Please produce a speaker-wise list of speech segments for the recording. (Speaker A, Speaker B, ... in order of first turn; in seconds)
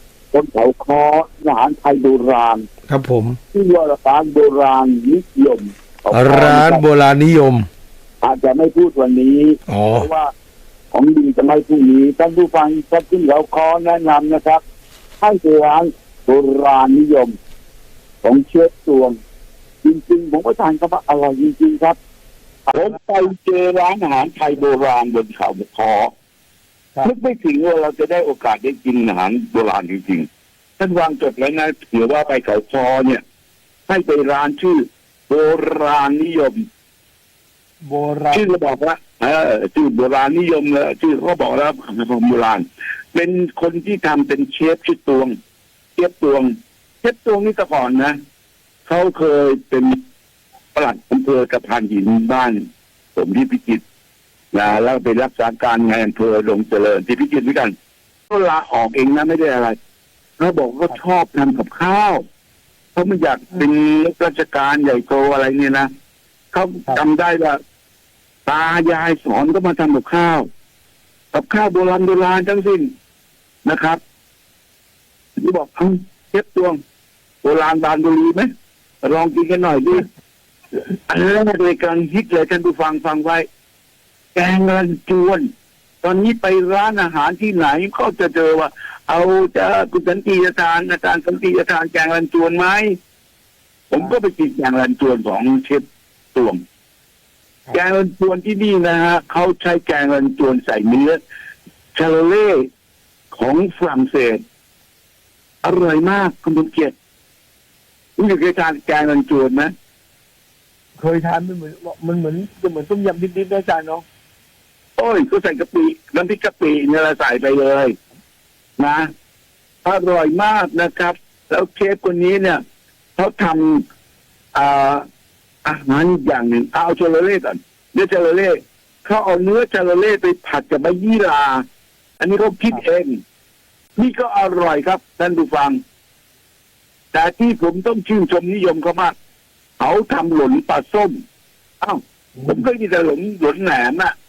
Speaker A: 0.3-2.6, 3.5-6.8, 8.2-10.3, 10.9-14.6, 15.2-17.4, 18.2-19.2, 19.8-22.0, 22.7-26.1, 27.0-30.3, 30.8-33.2, 33.9-36.6, 38.3-45.3, 46.0-48.2, 48.9-50.0, 50.7-53.8, 54.5-57.7, 58.3-59.8, 60.4-62.2, 63.0-65.9, 66.5-67.6, 68.5-70.5, 71.3-72.9, 73.7-74.0, 75.4-76.8, 77.4-78.5, 79.0-80.1, 80.8-83.5, 84.3-85.5, 86.0-93.0, 93.9-96.6, 97.7-101.2, 102.0-102.7, 103.3-104.4, 105.6-106.9, 108.2-109.7, 115.0-117.9, 118.8-119.1, 119.8-122.6, 123.2-123.8, 124.5-125.0, 125.7-131.6, 132.2-133.2, 134.0-135.8, 137.1-139.1, 139.8-141.2, 141.8-144.1
Speaker B: 2.9-3.4, 6.1-7.7, 9.7-10.1
Speaker C: 37.9-38.5, 111.0-114.0, 142.4-142.6